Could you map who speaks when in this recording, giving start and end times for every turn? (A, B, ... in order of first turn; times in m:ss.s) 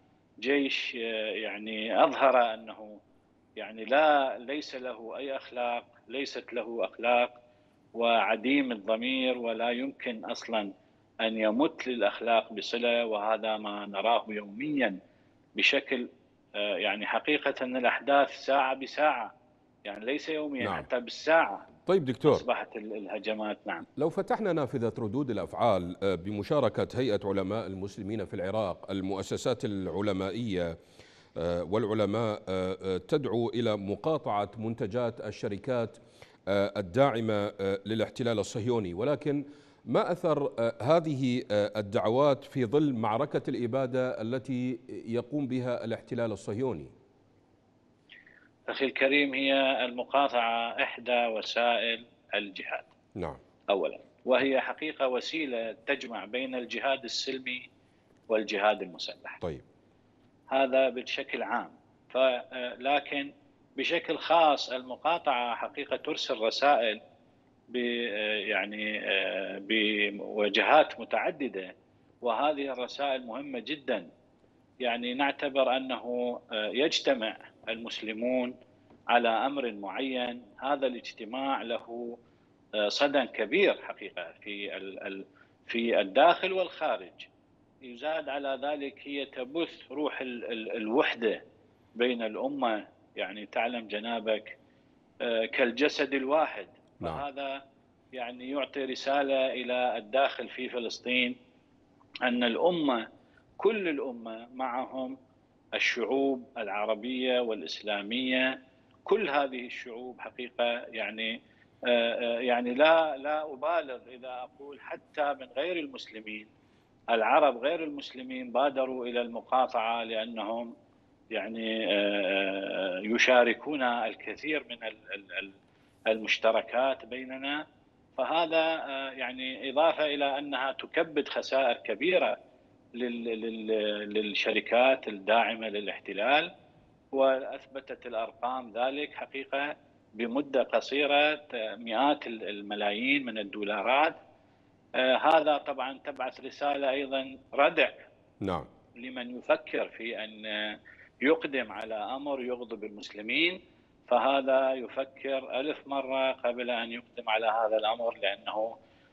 0:00.4-0:03.0 A
0:03.6-0:07.3 A
0:07.9-0:10.7 A
0:11.2-0:15.0 A
0:15.6-0:19.3 A
0:19.8-0:21.7 A
0:21.9-0:22.4 B
0:22.3-0:23.8 A
0:24.0-0:30.8 B
0:31.4-0:46.9 B
0:48.7-0:52.9 A
0:53.2-0:53.4 B
0:53.7-0:57.6 A
0:58.3-0:59.4 A
1:00.5-1:07.0 A
1:07.7-1:11.7 A
1:12.2-1:14.1 A
1:14.8-1:18.5 A
1:19.1-1:22.2 A
1:22.8-1:27.3 A
1:27.8-1:31.4 A
1:32.0-1:34.6 A
1:35.2-1:37.6 A
1:38.1-1:41.4 A
1:42.2-1:43.0 A
1:43.6-1:45.2 A
1:45.7-1:56.5 A
1:57.1-2:00.7 A
2:01.3-2:05.6 A
2:06.1-2:07.6 A
2:08.2-2:12.4 A
2:13.0-2:16.5 A
2:17.1-2:24.2 A
2:25.0-2:28.1 A
2:28.4-2:28.7 B
2:29.0-2:38.7 A